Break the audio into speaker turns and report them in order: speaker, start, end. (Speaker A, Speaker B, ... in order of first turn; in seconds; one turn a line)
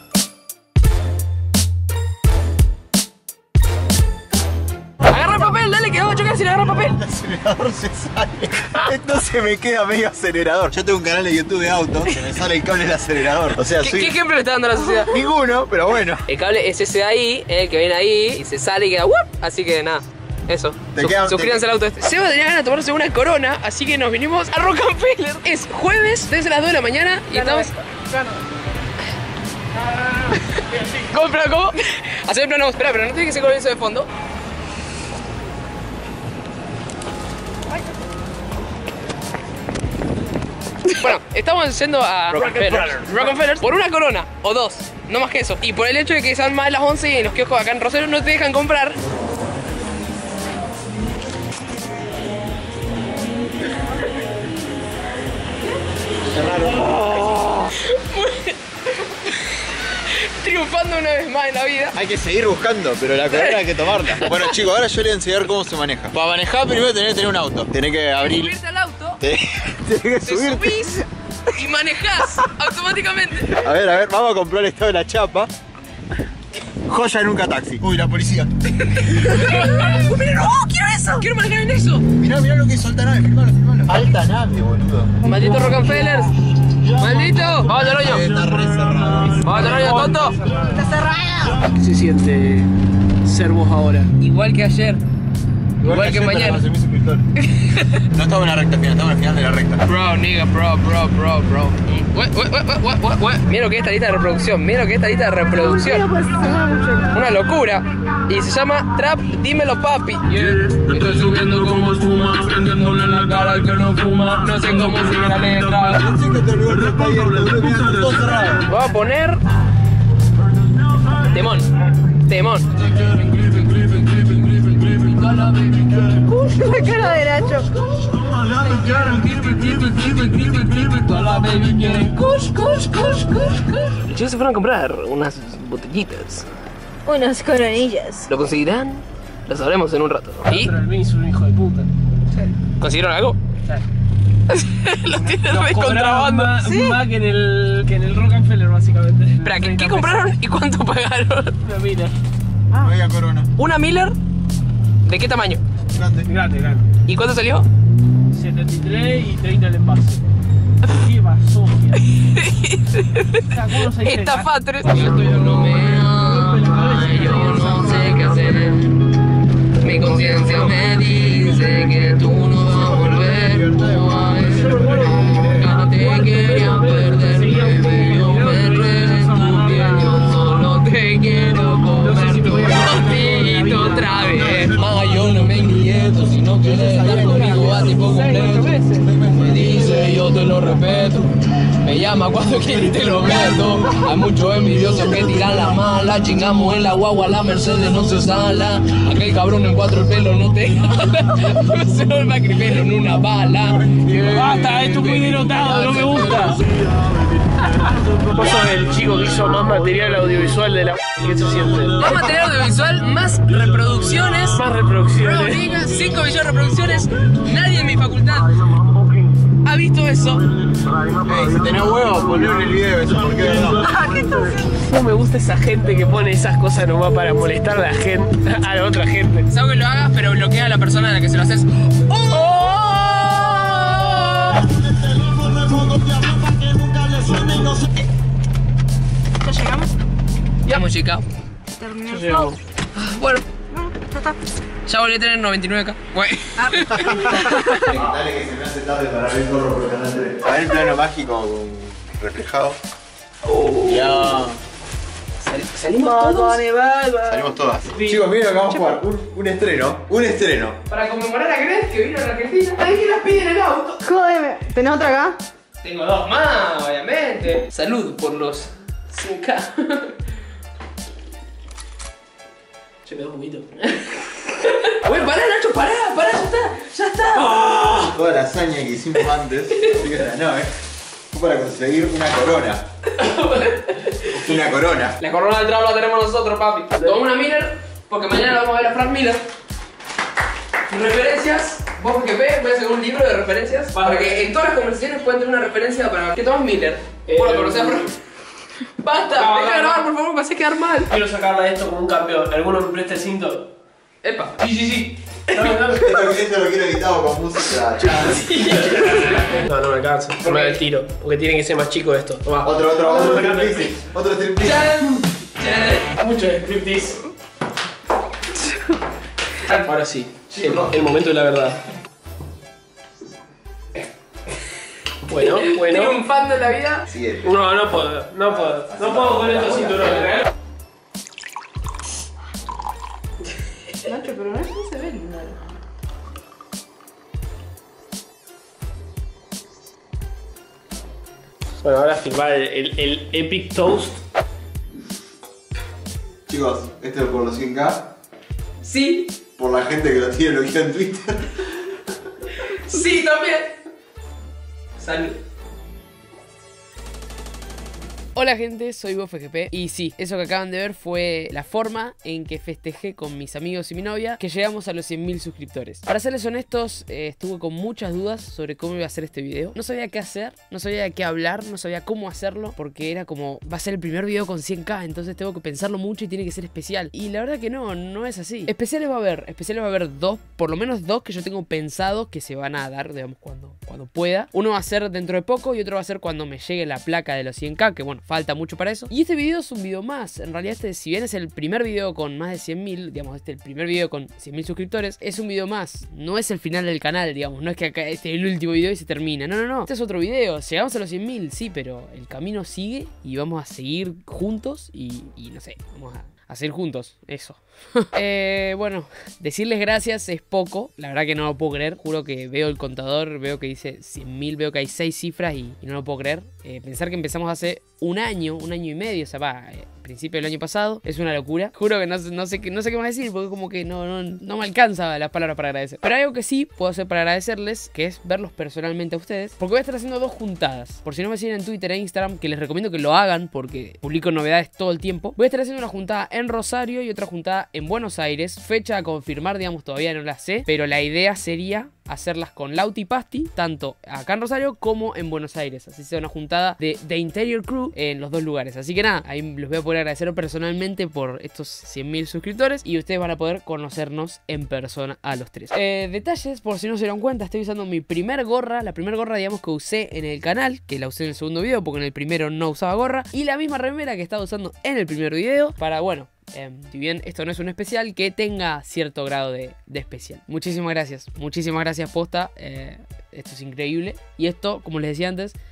Speaker A: 5.0-7.0
Speaker B: 7.0-14.1
Speaker A: 13.8-15.2
Speaker B: 15.1-16.2
Speaker A: 16.3-27.7
Speaker B: 20.9-21.6
Speaker C: 27.3-28.4
Speaker A: 30.3-34.1
Speaker A: 40.9-49.0
Speaker B: 42.3-43.0
Speaker D: 42.4-43.1
Speaker B: 56.3-57.3
Speaker A: 57.0-62.0
Speaker B: 61.9-68.5
Speaker A: 63.3-64.6
Speaker A: 68.2-69.2
Speaker B: 69.2-71.0
Speaker A: 70.2-73.6
Speaker B: 73.6-75.5
Speaker B: 76.9-78.5
Speaker A: 78.8-82.0
Speaker B: 82.2-85.1
Speaker A: 85.2-86.3
Speaker A: 86.9-88.2
Speaker B: 87.7-89.7
Speaker A: 89.4-90.4
Speaker D: 89.7-90.7
Speaker C: 90.7-91.6
Speaker D: 91.7-92.7
Speaker D: 93.2-94.1
Speaker A: 94.2-95.0
Speaker B: 95.8-97.2
Speaker A: 95.8-96.6
Speaker A: 97.4-98.0
Speaker B: 98.1-99.8
Speaker A: 99.8-106.1
Speaker C: 105.6-107.1
Speaker A: 107.1-116.0
Speaker B: 116.0-118.6
Speaker A: 118.6-119.4
Speaker A: 121.2-126.3
Speaker C: 126.2-127.7
Speaker A: 128.3-136.5
Speaker C: 137.1-138.2
Speaker A: 138.2-140.7
Speaker D: 140.5-141.9
Speaker A: 142.8-143.4
Speaker A: 144.5-146.6
Speaker D: 145.3-150.3
Speaker C: 146.6-146.9
Speaker A: 149.4-151.6
Speaker D: 151.6-152.1
Speaker B: 152.7-153.5
Speaker A: 153.6-154.2
Speaker A: 155.0-155.6
Speaker B: 155.9-156.3
Speaker D: 156.3-156.8
Speaker A: 157.1-157.7
Speaker D: 158.3-160.2
Speaker D: 160.8-162.0
Speaker A: 162.1-169.0
Speaker D: 163.4-168.6
Speaker A: 169.8-206.6
Speaker B: 172.6-174.7
Speaker D: 174.4-180.2
Speaker D: 181.9-184.5
Speaker B: 186.7-187.8
Speaker D: 187.2-189.1
Speaker D: 204.1-206.7
Speaker D: 207.8-212.1
Speaker A: 211.9-214.6
Speaker D: 214.5-215.6
Speaker A: 215.2-218.6
Speaker A: 219.6-220.5
Speaker D: 221.0-221.4
Speaker B: 221.2-223.8
Speaker D: 223.8-229.5
Speaker A: 223.8-224.7
Speaker A: 229.5-237.8
Speaker C: 239.4-239.9
Speaker A: 240.7-241.2
Speaker C: 241.8-242.5
Speaker D: 242.1-242.6
Speaker A: 242.9-243.4
Speaker C: 243.7-244.3
Speaker A: 244.8-247.9
Speaker B: 247.1-252.8
Speaker A: 253.5-254.2
Speaker B: 253.8-254.6
Speaker A: 255.4-257.1
Speaker C: 256.0-257.4
Speaker B: 257.3-260.8
Speaker A: 260.9-264.3
Speaker C: 264.0-265.4
Speaker A: 265.8-270.1
Speaker D: 273.0-273.7
Speaker A: 273.8-277.6
Speaker D: 277.4-278.1
Speaker B: 278.1-280.7
Speaker A: 279.7-280.0
Speaker B: 281.3-282.8
Speaker A: 283.1-284.6
Speaker B: 284.3-285.1
Speaker A: 285.2-289.4
Speaker A: 290.9-298.1
Speaker D: 293.9-294.3
Speaker D: 297.3-298.1
Speaker A: 298.8-301.1
Speaker D: 299.3-300.1
Speaker D: 301.1-303.7
Speaker A: 304.2-304.6
Speaker D: 304.6-306.3
Speaker B: 305.9-308.7
Speaker A: 308.2-309.6
Speaker D: 308.8-313.9
Speaker A: 310.4-310.8
Speaker B: 312.6-314.9
Speaker A: 314.6-316.1
Speaker D: 316.2-317.2
Speaker D: 319.6-321.8
Speaker D: 325.2-326.2
Speaker A: 325.3-327.1
Speaker B: 327.1-327.5
Speaker D: 327.4-330.4
Speaker C: 334.1-335.7
Speaker D: 341.8-344.2
Speaker B: 346.5-348.0
Speaker A: 348.8-349.3
Speaker B: 349.6-351.4
Speaker A: 352.6-353.8
Speaker A: 355.0-355.4
Speaker A: 358.3-475.6